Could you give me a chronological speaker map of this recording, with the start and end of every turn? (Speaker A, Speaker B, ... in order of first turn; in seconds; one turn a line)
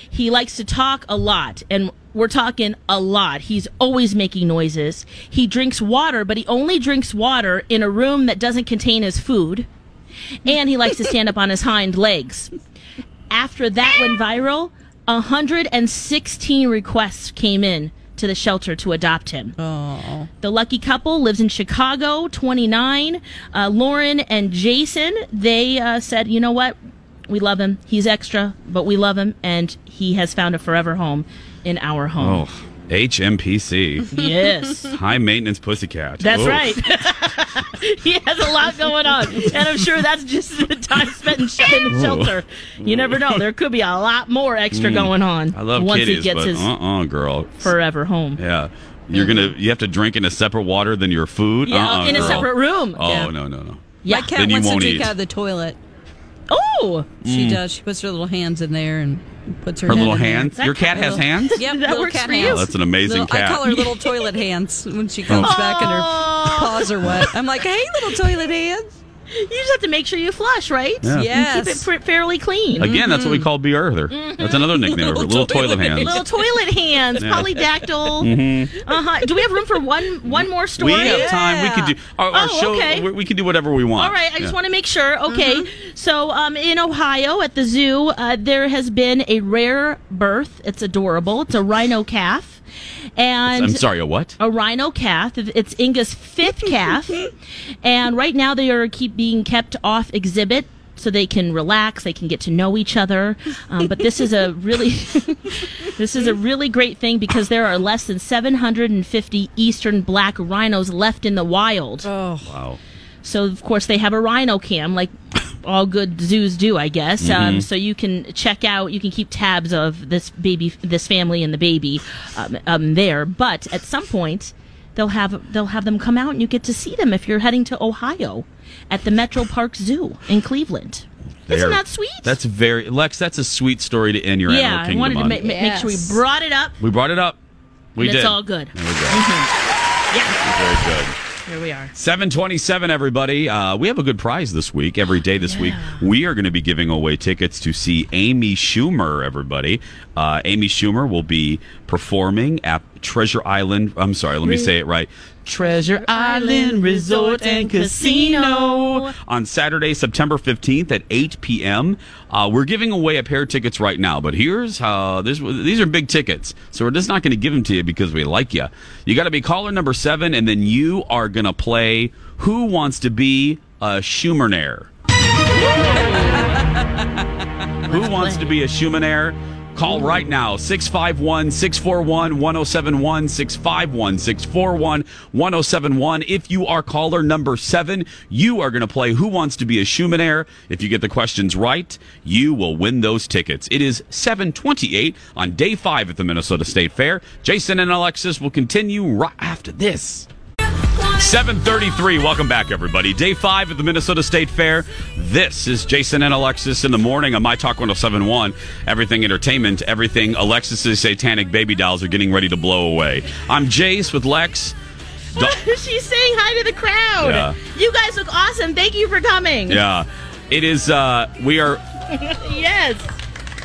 Speaker A: 0.1-9.7
Speaker A: 10.4-12.5
Speaker A: 13.3-19.6
Speaker B: 19.6-20.3
Speaker A: 20.4-26.8
Speaker A: 27.3-32.4
Speaker C: 32.2-34.1
Speaker A: 34.1-34.9
Speaker C: 34.9-36.8
Speaker A: 36.2-46.7
Speaker C: 41.9-43.4
Speaker C: 44.7-47.7
Speaker A: 47.6-48.4
Speaker C: 48.4-55.1
Speaker A: 49.1-49.5
Speaker A: 51.7-53.3
Speaker B: 52.1-52.5
Speaker A: 54.0-54.4
Speaker B: 54.1-55.8
Speaker A: 56.5-57.1
Speaker C: 57.2-57.6
Speaker B: 57.2-69.0
Speaker C: 59.9-61.6
Speaker A: 60.5-62.7
Speaker C: 62.4-63.7
Speaker A: 63.7-64.4
Speaker C: 65.3-65.8
Speaker A: 65.3-66.9
Speaker A: 69.3-73.0
Speaker C: 71.0-71.3
Speaker B: 71.1-71.9
Speaker C: 72.8-76.2
Speaker B: 72.9-73.5
Speaker A: 74.1-74.8
Speaker B: 74.9-76.4
Speaker A: 76.0-81.3
Speaker C: 77.2-77.5
Speaker C: 78.2-78.8
Speaker C: 80.8-84.5
Speaker B: 80.9-81.9
Speaker A: 82.3-83.1
Speaker A: 84.0-92.6
Speaker B: 85.3-85.7
Speaker A: 93.2-93.8
Speaker C: 93.5-94.4
Speaker A: 94.4-97.3
Speaker A: 97.8-112.1
Speaker B: 112.0-112.5
Speaker C: 112.5-112.8
Speaker A: 113.2-132.4
Speaker C: 117.2-117.7
Speaker C: 131.4-135.4
Speaker A: 134.5-136.8
Speaker B: 135.4-136.2
Speaker C: 136.8-137.4
Speaker C: 138.0-139.2
Speaker A: 138.0-139.5
Speaker A: 140.1-140.4
Speaker C: 140.4-141.2
Speaker A: 141.5-141.9
Speaker C: 141.9-174.9
Speaker A: 145.4-146.0
Speaker A: 154.4-154.7
Speaker A: 155.7-159.1
Speaker A: 175.5-176.7
Speaker B: 175.9-176.8
Speaker A: 177.9-178.6
Speaker C: 177.9-200.3
Speaker C: 201.2-214.8
Speaker A: 215.4-219.8
Speaker C: 217.2-217.6
Speaker C: 219.7-221.8
Speaker A: 222.1-223.2